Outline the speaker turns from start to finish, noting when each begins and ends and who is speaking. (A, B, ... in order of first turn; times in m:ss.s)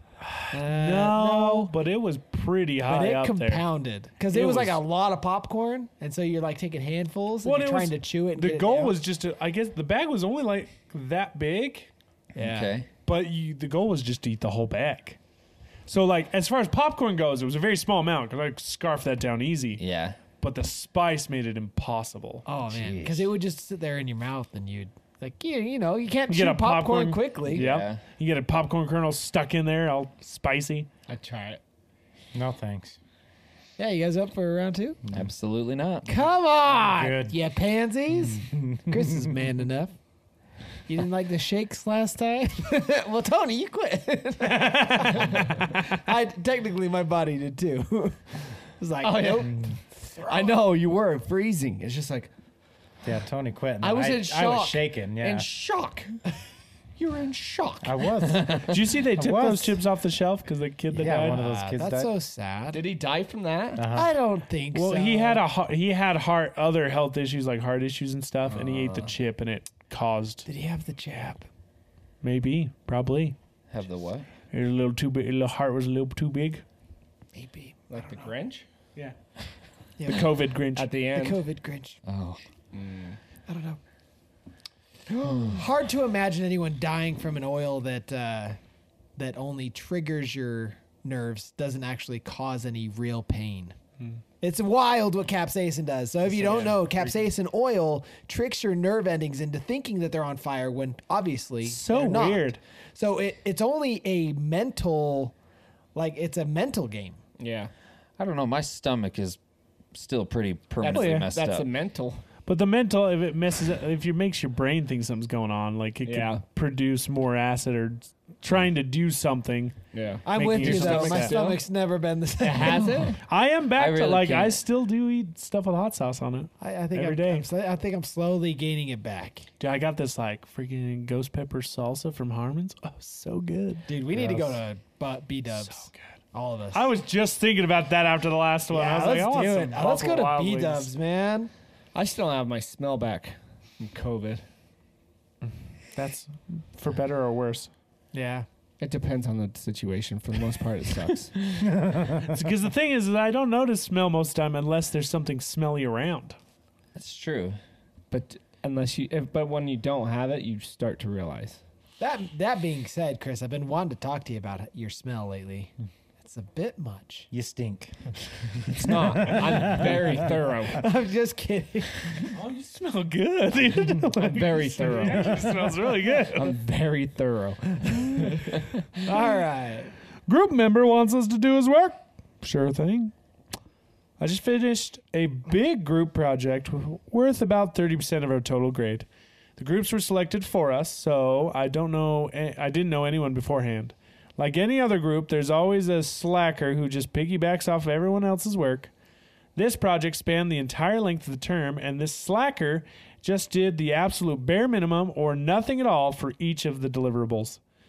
0:00.2-0:03.6 A
0:00.5-0:01.7 B
0:02.9-0:09.0 B
0:04.3-0:04.8 A
0:07.4-0:11.9 A
0:12.4-0:12.7 B
0:12.4-0:12.9 C
0:13.1-0:15.2 A
0:15.9-0:19.8 A
0:19.8-0:20.2 C
0:20.4-0:22.4 A
0:22.5-0:27.7 B
0:22.7-0:23.2 C
0:26.3-0:30.9 A
0:27.5-0:28.0 C
0:31.1-0:31.6 D
0:32.3-0:33.0 E
0:33.8-0:35.0 B
0:35.0-0:35.3 E
0:35.1-0:36.1 C
0:36.1-0:39.9 B
0:36.8-0:37.4 E
0:38.3-0:39.3 E
0:40.9-0:50.6 B
0:44.4-0:46.0 A
0:49.0-0:49.7 D
0:50.3-0:52.3 D
0:53.0-0:55.5 E
0:53.8-0:56.1 D
0:57.0-0:58.0 D
0:57.8-0:59.8 E
0:58.3-0:58.7 C
0:58.7-1:01.5 A
1:00.9-1:02.1 E
1:01.2-1:02.8 B
1:02.7-1:03.9 D
1:03.8-1:04.1 E
1:03.9-1:05.4 B
1:04.7-1:10.5 A
1:08.5-1:09.1 D
1:10.5-1:11.5 B
1:12.2-1:13.4 A
1:13.7-1:14.3 C
1:14.5-1:16.6 A
1:17.4-1:17.8 B
1:17.9-1:18.6 D
1:20.0-1:20.4 B
1:20.0-1:20.9 A
1:20.8-1:21.4 D
1:21.1-1:22.0 B
1:22.0-1:22.4 C
1:22.7-1:23.2 D
1:23.5-1:23.8 B
1:25.2-1:28.6 B
1:29.2-1:33.8 B
1:34.4-1:45.3 B
1:36.4-1:37.1 D
1:41.6-1:42.6 A
1:46.0-1:47.2 B
1:47.4-1:47.7 D
1:48.2-1:49.4 C
1:49.9-1:51.7 C
1:50.8-1:52.2 D
1:50.8-1:51.3 A
1:52.5-1:59.8 A
1:56.0-1:56.4 D
1:59.9-2:01.6 D
2:00.2-2:03.1 B
2:00.3-2:01.4 A
2:02.4-2:03.2 D
2:03.2-2:07.5 A
2:03.8-2:04.6 C
2:06.6-2:09.5 B
2:09.6-2:13.9 A
2:13.9-2:16.9 B
2:15.6-2:16.1 A
2:16.7-2:20.9 A
2:18.7-2:21.5 B
2:21.9-2:24.4 D
2:25.9-2:27.7 A
2:28.1-2:28.5 B
2:28.8-2:31.3 D
2:31.6-2:32.4 E
2:32.2-2:36.4 A
2:37.0-2:37.6 C
2:38.1-2:41.6 D
2:42.0-2:47.3 B
2:47.3-2:48.0 E
2:48.6-2:50.2 E
2:48.8-2:50.8 D
2:50.7-2:52.3 B
2:52.3-2:56.6 A
2:54.2-2:55.5 D
2:56.3-2:59.0 D
2:59.0-2:59.9 B
3:00.3-3:03.1 A
3:04.2-3:18.9 A
3:19.6-3:27.6 A